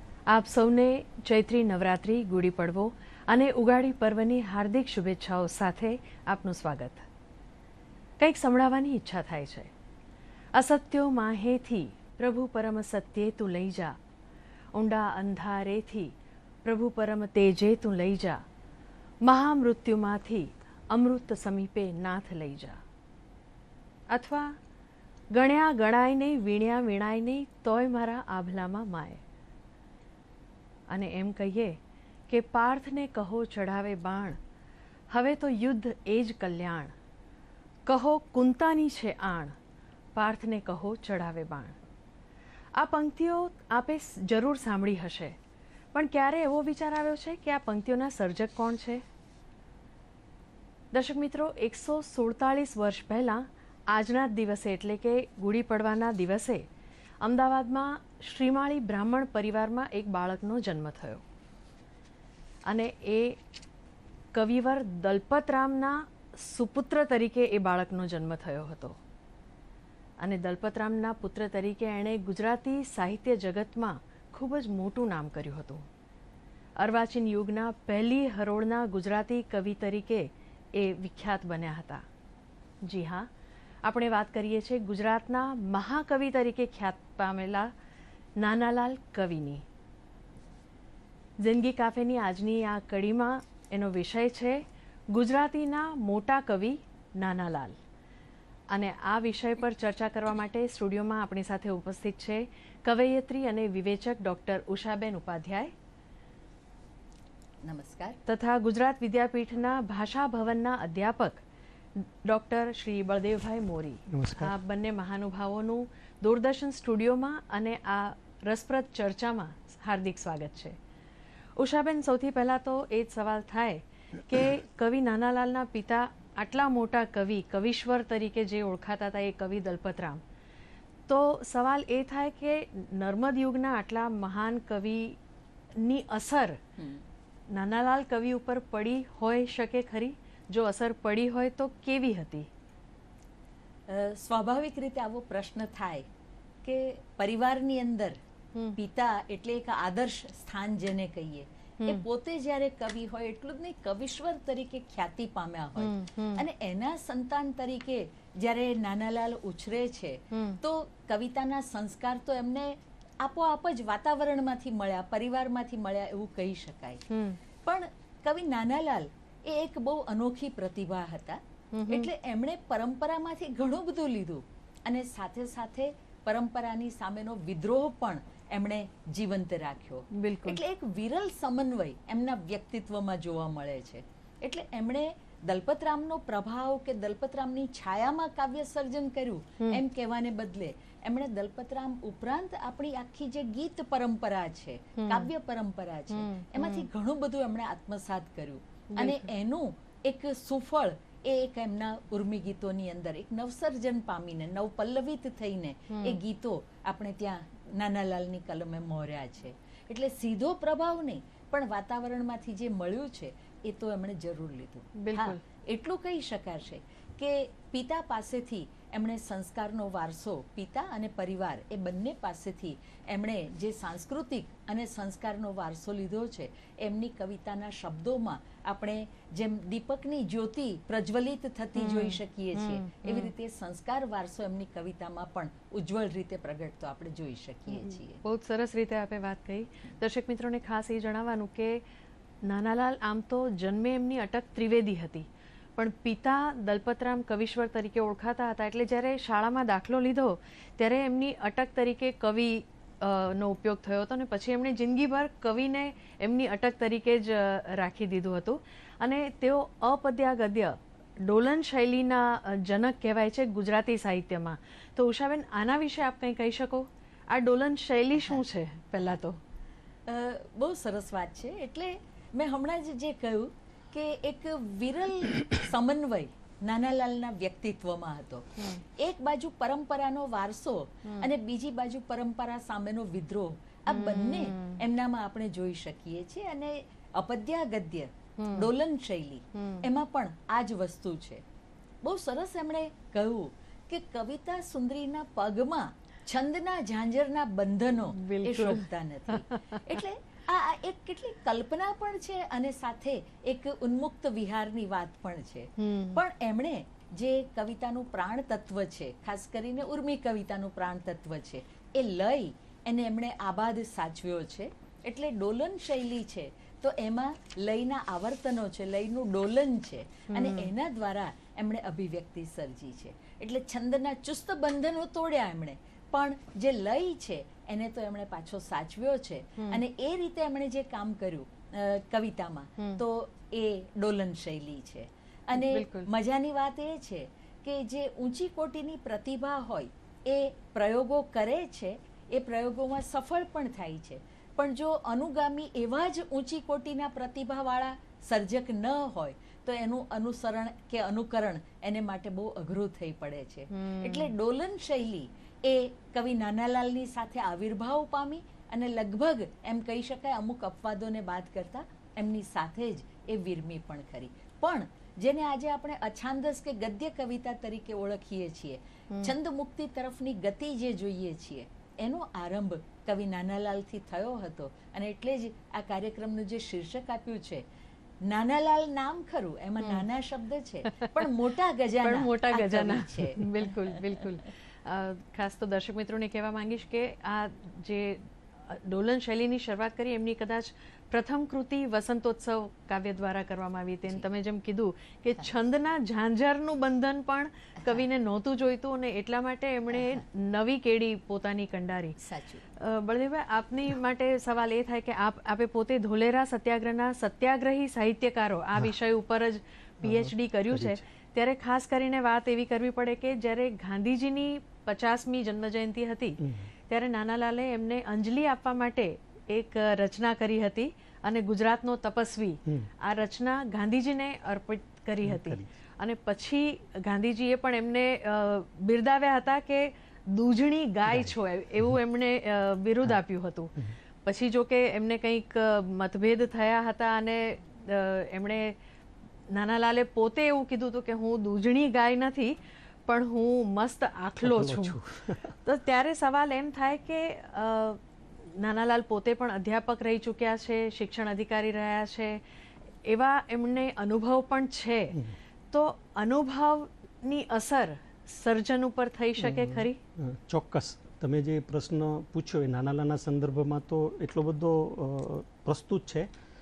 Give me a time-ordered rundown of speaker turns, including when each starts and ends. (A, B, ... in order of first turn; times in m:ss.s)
0:00.3-0:07.0 A
0:08.2-0:09.7 A
0:10.5-0:14.0 A
0:14.7-0:16.1 A
0:16.6-0:18.4 A
0:19.2-0:22.8 A
0:24.1-0:24.5 A
0:25.3-0:29.2 A
0:30.9-0:31.8 A
0:32.3-0:34.4 A
0:35.1-0:36.9 A
0:37.8-0:39.5 A
0:40.1-0:41.8 A
0:42.8-0:45.4 A
0:45.9-0:49.0 A
0:50.9-0:56.6 A
0:57.2-1:01.2 A
1:02.6-1:03.4 A
1:04.3-1:09.0 A
1:10.2-1:15.8 A
1:16.8-1:22.0 A
1:22.8-1:23.3 A
1:23.8-1:27.7 A
1:28.4-1:29.6 A
1:31.4-1:37.8 A
1:38.7-1:45.7 A
1:47.6-1:48.2 B
1:48.2-1:51.4 A
1:52.0-2:00.8 A
1:54.1-1:54.5 C
2:01.6-2:10.2 A
2:11.1-2:15.2 A
2:15.8-2:16.6 A
2:16.8-2:17.0 B
2:17.5-2:22.5 A
2:23.9-2:26.1 B
2:26.6-2:28.2 B
2:28.8-2:47.0 B
2:35.8-2:36.4 A
2:40.3-2:40.6 A
2:47.1-2:47.4 A
2:47.6-3:58.2 B
2:51.7-2:52.1 A
3:00.1-3:00.6 A
3:15.0-3:15.3 A
3:16.1-3:16.9 A
3:18.9-3:19.3 A
3:25.9-3:26.2 A
3:35.0-3:35.4 A
3:51.8-3:53.3 A
3:57.7-4:01.8 A
4:02.4-4:29.4 A
4:30.0-4:51.4 B
4:43.9-4:44.8 A
4:48.4-4:48.7 A
4:49.5-4:49.8 A
4:52.0-6:17.6 B
4:58.1-4:59.5 A
5:05.8-5:06.2 A
5:20.3-5:20.7 A
5:35.5-5:36.1 A
5:53.7-5:54.3 A
6:18.2-6:24.0 B
6:20.9-6:21.3 A
6:22.0-6:42.2 A
6:39.9-6:40.2 B
6:42.2-6:42.6 B
6:42.8-7:18.8 A
6:50.0-6:51.0 C
6:56.4-6:56.7 C
7:05.2-7:05.7 C
7:11.1-7:11.9 C
7:19.5-7:22.6 A
7:23.1-7:25.0 A
7:24.4-7:25.6 C
7:25.6-7:28.0 A
7:28.5-7:32.4 A
7:33.0-7:35.2 A
7:35.7-7:40.0 A
7:39.4-7:46.3 C